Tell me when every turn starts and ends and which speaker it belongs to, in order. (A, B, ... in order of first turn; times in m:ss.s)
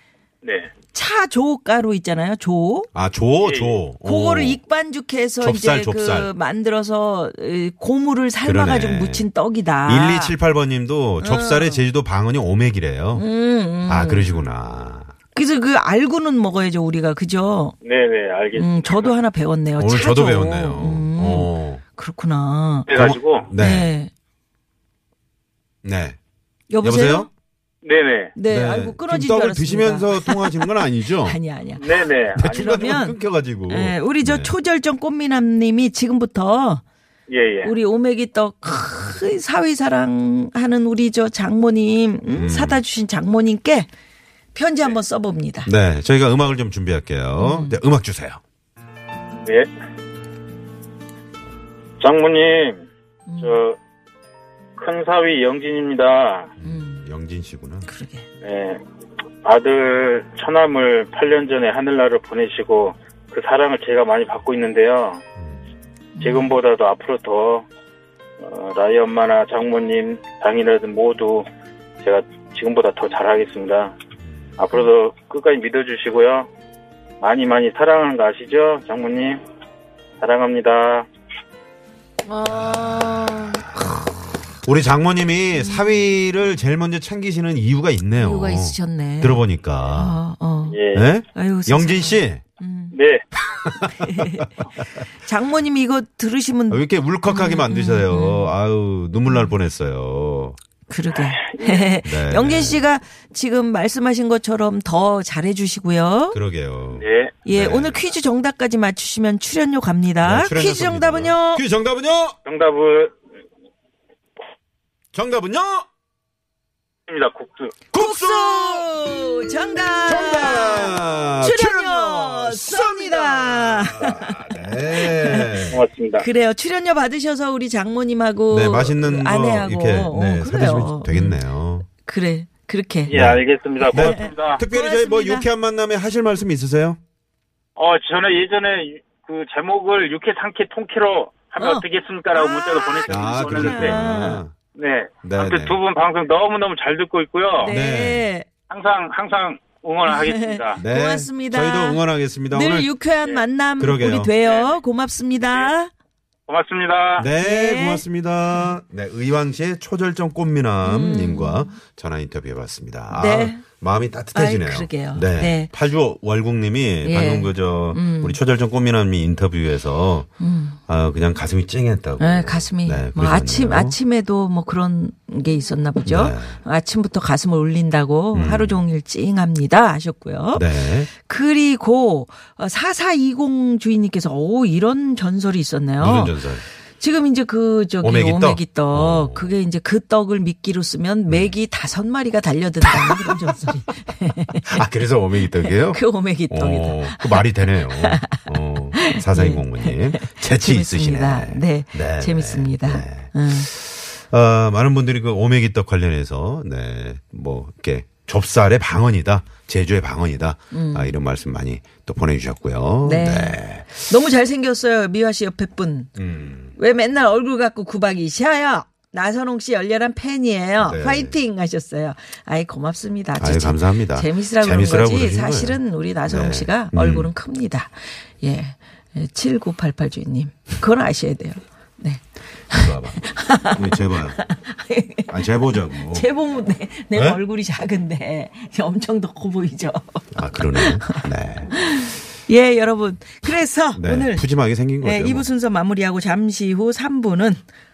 0:00.4-0:00.7 A
0:00.9-0:02.9 B
0:02.9-0:04.6 C
0:03.4-0:03.8 A
0:04.0-0:10.4 B
0:05.4-0:06.3 C
0:08.4-0:09.3 C
0:09.9-0:13.3 C
0:11.2-0:11.8 B
0:13.1-0:14.3 B
0:13.9-0:15.1 C
0:15.3-0:17.8 B
0:17.8-0:19.1 A
0:18.5-0:22.9 B
0:19.8-0:21.8 C
0:22.9-0:23.5 A
0:22.9-0:23.9 C
0:23.5-0:24.1 B
0:25.8-0:26.2 C
0:26.7-0:27.3 B
0:26.8-0:27.3 C
0:27.8-0:28.4 A
0:28.4-0:36.8 B
0:28.5-0:31.4 C
0:31.8-0:32.8 A
0:32.3-0:34.5 C
0:37.3-0:37.7 A
0:37.6-0:43.9 B
0:42.3-0:42.8 C
0:44.5-0:45.7 B
0:45.6-0:48.4 C
0:47.4-0:47.8 B
0:49.4-0:49.7 A
0:52.0-0:52.9 A
0:53.3-0:53.6 B
0:53.4-0:53.8 A
0:54.8-0:56.5 A
0:56.6-0:57.9 C
0:56.6-0:57.1 B
0:57.8-0:58.3 B
0:58.4-0:58.8 A
0:59.4-1:05.2 A
1:05.4-1:05.6 C
1:06.2-1:06.6 B
1:06.2-1:07.7 A
1:08.4-1:11.5 A
1:12.0-1:14.0 A
1:14.2-1:14.6 C
1:14.6-1:16.5 A
1:17.2-1:19.4 A
1:20.2-1:21.1 A
1:22.3-1:24.6 B
1:22.4-1:24.0 C
1:24.6-1:30.2 C
1:25.5-1:26.2 B
1:28.2-1:30.8 B
1:30.7-1:31.1 A
1:30.9-1:32.4 C
1:31.3-1:33.0 B
1:32.9-1:33.2 A
1:33.4-1:34.7 C
1:33.8-1:38.5 B
1:36.7-1:40.6 C
1:39.3-1:39.6 B
1:40.9-1:46.4 B
1:41.4-1:41.9 A
1:42.0-1:42.8 C
1:46.3-1:48.1 C
1:47.0-1:47.4 A
1:47.4-1:51.6 B
1:50.2-1:52.4 C
1:52.4-1:53.2 A
1:55.1-1:55.9 C
1:57.1-1:57.8 A
1:57.9-1:59.0 C
1:57.9-2:11.4 B
2:00.1-2:05.8 C
2:05.7-2:06.3 A
2:08.5-2:11.9 C
2:12.0-2:13.2 B
2:13.1-2:14.6 A
2:13.1-2:13.4 C
2:13.8-2:15.5 B
2:13.9-2:17.0 C
2:17.8-2:24.0 A
2:21.6-2:24.4 B
2:23.1-2:24.5 C
2:24.8-2:27.8 A
2:25.2-2:25.8 C
2:27.6-2:28.5 B
2:27.6-2:28.3 C
2:28.7-2:30.8 A
2:30.1-2:35.9 B
2:30.8-2:32.9 C
2:33.8-2:34.3 C
2:34.4-2:34.8 A
2:36.5-2:37.3 A
2:37.2-2:50.3 C
2:37.4-2:38.7 B
2:40.8-2:41.8 B
2:43.1-2:43.6 B
2:44.3-2:45.7 B
2:47.0-2:48.4 B
2:50.4-2:50.8 B
2:50.9-2:54.0 C
2:52.2-3:06.5 B
2:56.0-2:56.6 C
2:58.3-2:58.8 C
3:00.5-3:01.1 C
3:06.0-3:06.6 C
3:07.0-3:14.8 B
3:08.0-3:09.5 C
3:13.0-3:13.4 C
3:14.6-3:33.9 C
3:15.6-3:23.7 B
3:30.7-3:31.2 B
3:33.0-3:36.1 B
3:36.2-3:36.8 C
3:36.8-4:04.5 B
3:40.8-3:41.4 C
3:43.4-3:47.3 C
3:52.7-3:53.2 C
3:53.7-3:54.4 C
3:55.3-3:56.3 C
3:57.1-3:57.4 C
4:00.3-4:01.7 C
4:04.0-4:05.5 C
4:05.0-4:07.6 B